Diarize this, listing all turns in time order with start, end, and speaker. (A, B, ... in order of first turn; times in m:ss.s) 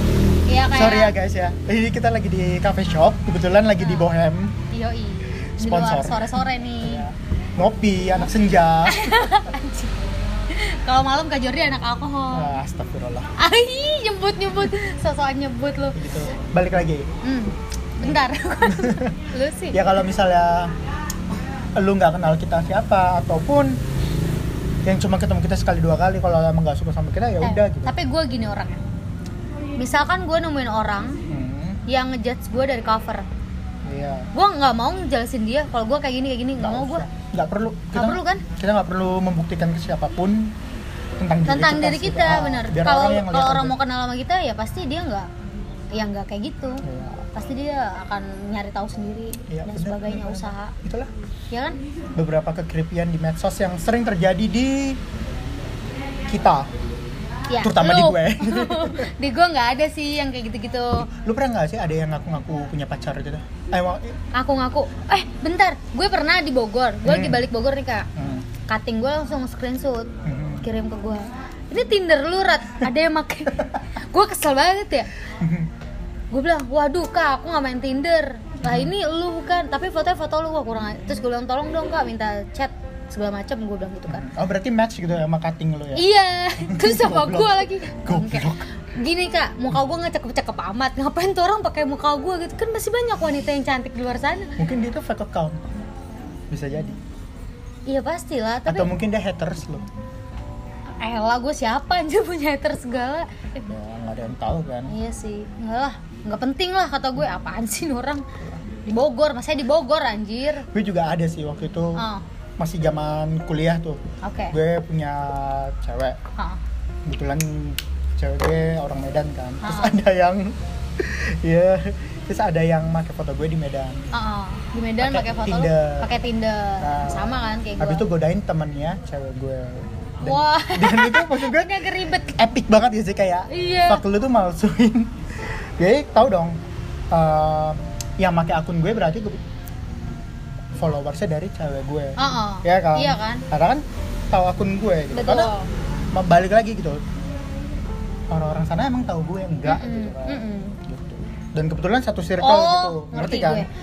0:00.5-0:01.1 A
0:00.7-0:04.6 B
0:03.8-0:04.1 A
0:04.7-0:07.0 A
0:05.6-0:09.4 B
0:08.8-0:10.0 A
0:10.5-0:12.5 A
0:12.3-0:13.3 B
0:13.4-0:16.0 A
0:15.9-0:17.1 B
0:17.2-0:19.8 A
0:18.0-0:19.2 B
0:19.7-0:20.7 B
0:21.8-0:23.8 B
0:24.8-0:27.9 B
0:27.4-0:28.8 A
0:29.8-0:31.2 A
0:31.3-0:31.8 B
0:31.9-0:33.2 A
0:33.8-0:34.3 B
0:34.3-0:37.0 A
0:36.6-0:40.6 B
0:37.9-0:38.4 A
0:41.2-0:43.8 B
0:41.4-0:45.3 A
0:45.9-0:50.7 A
0:46.8-0:47.3 B
0:49.5-0:51.1 B
0:51.5-0:51.8 A
0:52.1-0:55.0 B
0:56.3-0:56.7 B
0:57.5-1:01.1 A
0:57.6-0:59.1 B
1:01.1-1:04.2 B
1:04.3-1:08.1 A
1:07.0-1:07.5 B
1:08.2-1:08.5 B
1:08.6-1:15.1 A
1:10.2-1:10.7 B
1:15.4-1:15.7 B
1:16.3-1:24.3 A
1:18.6-1:18.9 B
1:24.1-1:28.6 B
1:25.9-1:34.5 A
1:34.6-1:35.7 B
1:36.5-1:37.0 B
1:37.9-1:38.9 A
1:38.7-1:39.9 B
1:41.0-1:43.6 A
1:43.6-1:44.9 B
1:44.9-1:48.2 A
1:48.8-1:50.6 A
1:50.7-1:52.0 B
1:52.0-1:52.2 A
1:52.6-1:56.2 B
1:54.2-1:54.6 A
1:57.0-2:04.0 B
1:59.6-2:00.0 A
2:04.1-2:08.0 A
2:05.0-2:06.1 B
2:06.8-2:16.6 B
2:10.2-2:12.3 A
2:13.5-2:14.0 A
2:17.1-2:19.4 B
2:20.7-2:25.5 B
2:22.2-2:23.4 A
2:25.1-2:25.7 A
2:26.1-2:27.0 B
2:28.3-2:33.7 B
2:29.6-2:30.8 A
2:32.4-2:33.7 A